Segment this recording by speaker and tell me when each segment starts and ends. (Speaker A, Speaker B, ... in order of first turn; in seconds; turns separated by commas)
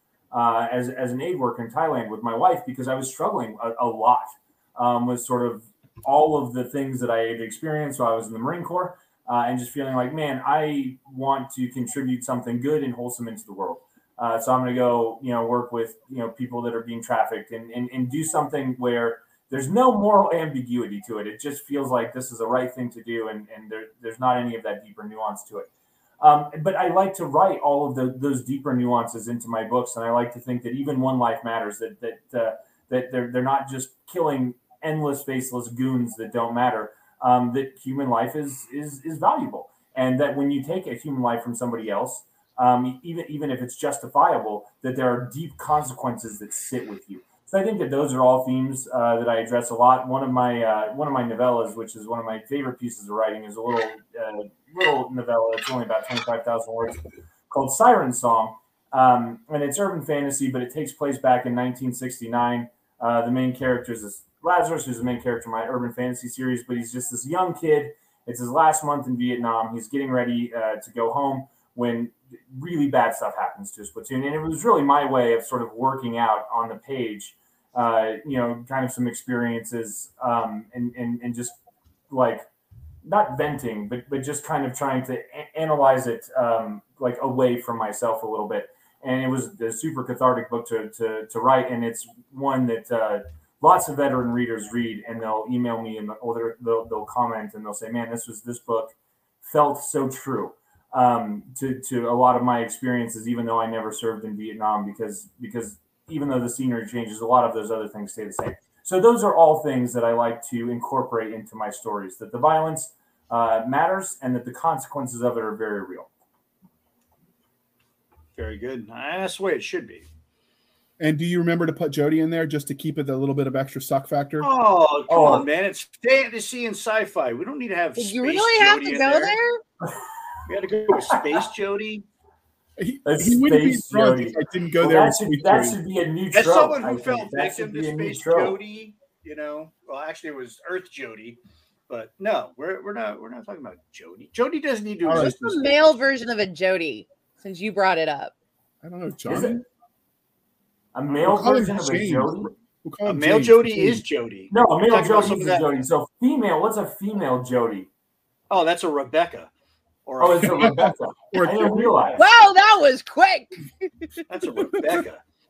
Speaker A: 0.3-25.7, Speaker A: 26.2-81.6, Speaker A: 82.1-82.5, Speaker A: 83.0-116.1, Speaker B: 118.4-120.1, Speaker C: 121.0-124.5, Speaker B: 124.4-129.4, Speaker A: 125.1-125.5, Speaker D: 128.0-129.6, Speaker B: 130.4-132.0, Speaker C: 132.8-135.8, Speaker A: 133.1-138.6, Speaker B: 136.3-145.7, Speaker C: 145.1-145.4, Speaker D: 145.2-148.3, Speaker C: 148.8-149.6, Speaker A: 149.3-149.6, Speaker A: 150.9-152.5, Speaker C: 151.2-154.0, Speaker B: 153.1-155.7, Speaker A: 154.5-157.9, Speaker B: 158.5-159.5, Speaker B: 160.1-160.8, Speaker A: 160.2-162.2, Speaker C: 160.6-162.2, Speaker D: 162.2-164.1, Speaker B: 164.3-165.2, Speaker C: 164.7-165.1